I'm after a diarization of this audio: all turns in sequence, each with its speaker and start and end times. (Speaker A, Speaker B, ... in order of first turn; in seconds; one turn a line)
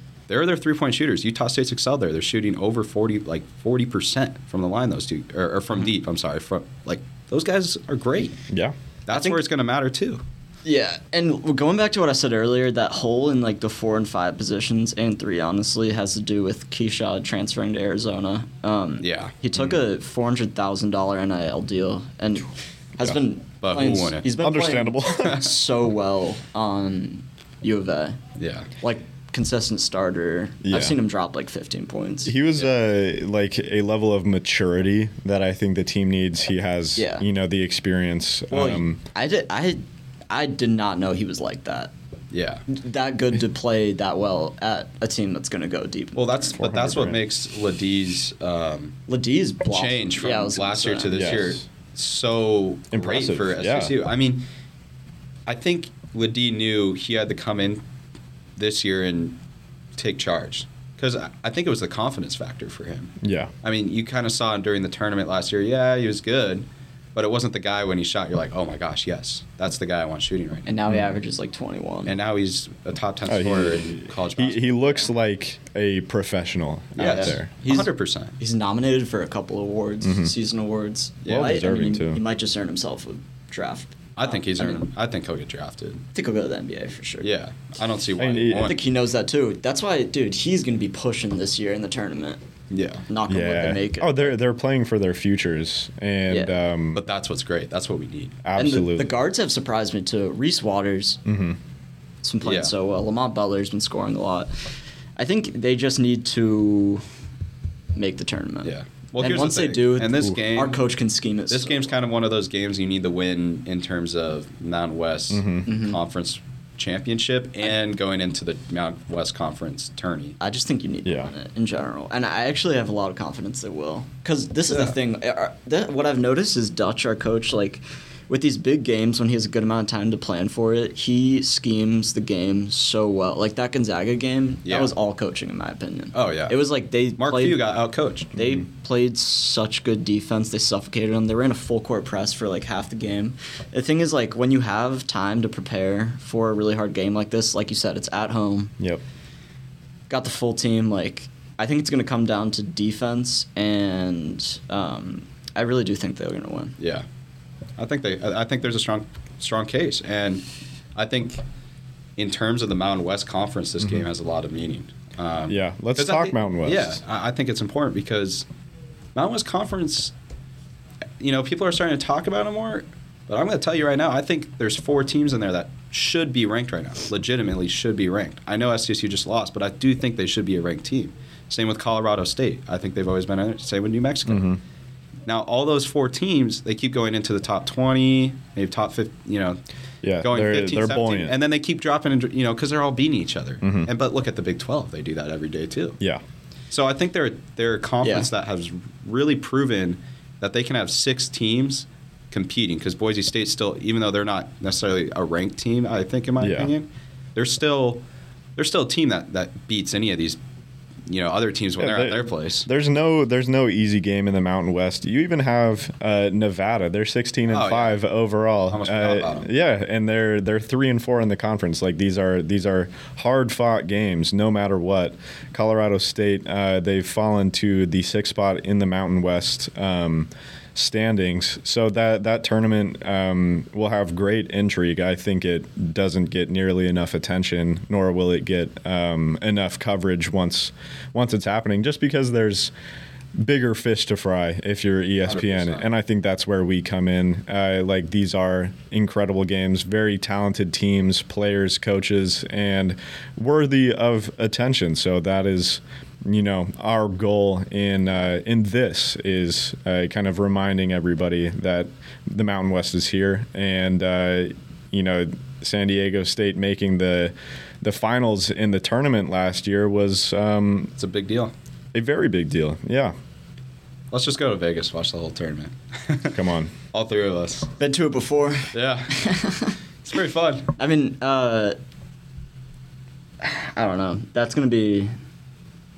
Speaker A: 0.3-8.4
Speaker A: 9.1-10.2
Speaker B: 9.1-9.4
Speaker B: 10.7-28.2
Speaker A: 19.0-19.3
Speaker A: 23.6-24.4
Speaker C: 24.4-25.5
Speaker A: 28.4-28.7
Speaker B: 28.8-32.6
Speaker C: 30.6-31.0
Speaker C: 32.3-39.0
Speaker B: 37.0-37.2
Speaker B: 38.5-41.9
Speaker A: 42.3-42.6
Speaker B: 42.7-46.6
Speaker A: 46.1-49.0
Speaker C: 46.6-47.2
Speaker B: 49.1-51.2
Speaker A: 49.7-54.5
Speaker C: 51.1-51.6
Speaker C: 52.9-54.0
Speaker A: 55.5-57.8
Speaker A: 58.6-59.4
Speaker A: 60.0-70.8
Speaker C: 63.2-63.5
Speaker B: 70.7-72.2
Speaker A: 72.1-74.7
Speaker C: 73.3-77.5
Speaker B: 77.0-84.8
Speaker A: 77.0-78.4
Speaker C: 80.0-80.3
Speaker A: 81.2-81.5
Speaker C: 81.3-82.2
Speaker A: 84.2-86.0
Speaker B: 86.1-87.3
Speaker A: 87.2-88.8
Speaker C: 88.2-88.8
Speaker B: 88.5-92.4
Speaker A: 92.7-93.0
Speaker B: 93.1-94.3
Speaker C: 93.3-97.0
Speaker B: 96.3-96.6
Speaker A: 96.9-98.4
Speaker C: 98.4-99.2
Speaker B: 98.6-101.2
Speaker C: 101.2-101.6
Speaker B: 102.2-104.5
Speaker A: 102.4-102.7
Speaker B: 105.2-107.0
Speaker B: 108.0-112.0
Speaker A: 108.7-110.9
Speaker A: 111.5-120.4
Speaker C: 115.3-115.7
Speaker B: 115.7-116.0
Speaker B: 120.4-137.6
Speaker C: 121.1-121.3
Speaker A: 124.7-125.0
Speaker A: 134.7-134.9
Speaker A: 136.1-136.6
Speaker A: 137.2-138.3
Speaker B: 138.3-148.7
Speaker B: 150.1-156.8
Speaker A: 156.8-157.1
Speaker A: 157.8-161.4
Speaker A: 162.2-168.5
Speaker C: 165.5-167.0
Speaker A: 169.2-170.1
Speaker A: 171.2-184.5
Speaker C: 184.3-184.6
Speaker A: 185.3-189.6
Speaker C: 190.0-191.3
Speaker A: 190.2-196.0
Speaker C: 193.6-193.9
Speaker A: 196.7-208.0
Speaker B: 198.0-198.3
Speaker C: 206.4-206.7
Speaker A: 208.6-210.4
Speaker A: 211.1-212.7
Speaker C: 211.8-242.7
Speaker A: 217.5-218.0
Speaker A: 218.7-219.5
Speaker C: 243.4-270.9
Speaker A: 245.2-245.9
Speaker A: 271.0-271.5
Speaker C: 271.9-273.1
Speaker A: 274.1-277.7
Speaker C: 276.3-276.7
Speaker B: 277.8-279.8
Speaker A: 278.7-279.2
Speaker A: 280.0-280.7
Speaker B: 280.8-281.8
Speaker B: 283.4-285.1